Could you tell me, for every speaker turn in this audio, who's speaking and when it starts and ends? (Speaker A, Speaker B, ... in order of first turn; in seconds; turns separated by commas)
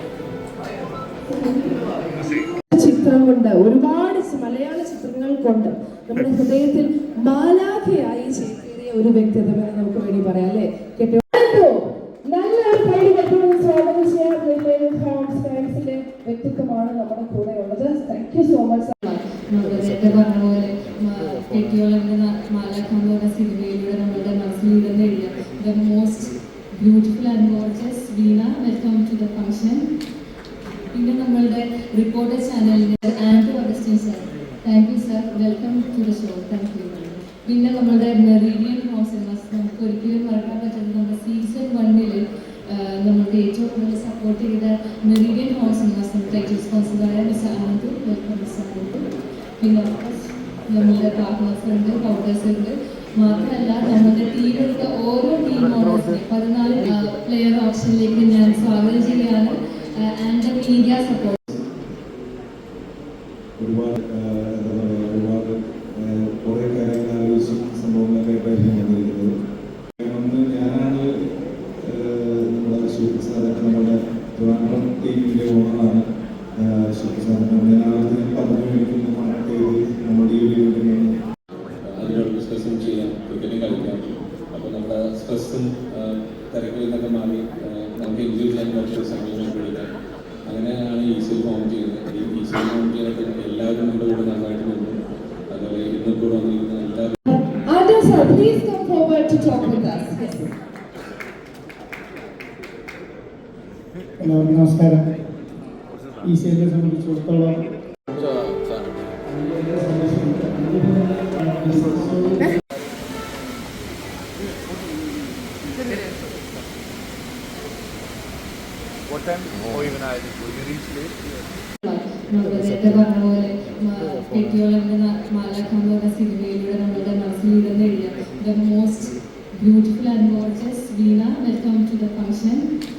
Speaker A: 1.3-1.8, Speaker A: 2.7-19.0, Speaker B: 19.0-29.9, Speaker B: 30.9-49.0, Speaker B: 49.6-61.4, Speaker C: 63.6-69.3, Speaker C: 70.0-71.1, Speaker C: 71.8-76.0, Speaker C: 76.5-81.1, Speaker D: 81.9-89.9, Speaker D: 90.5-95.0, Speaker D: 95.5-97.2, Speaker A: 97.3-100.5, Speaker E: 104.2-105.0, Speaker E: 106.2-107.6, Speaker D: 108.1-109.0, Speaker E: 109.3-112.5, Speaker B: 121.8-132.7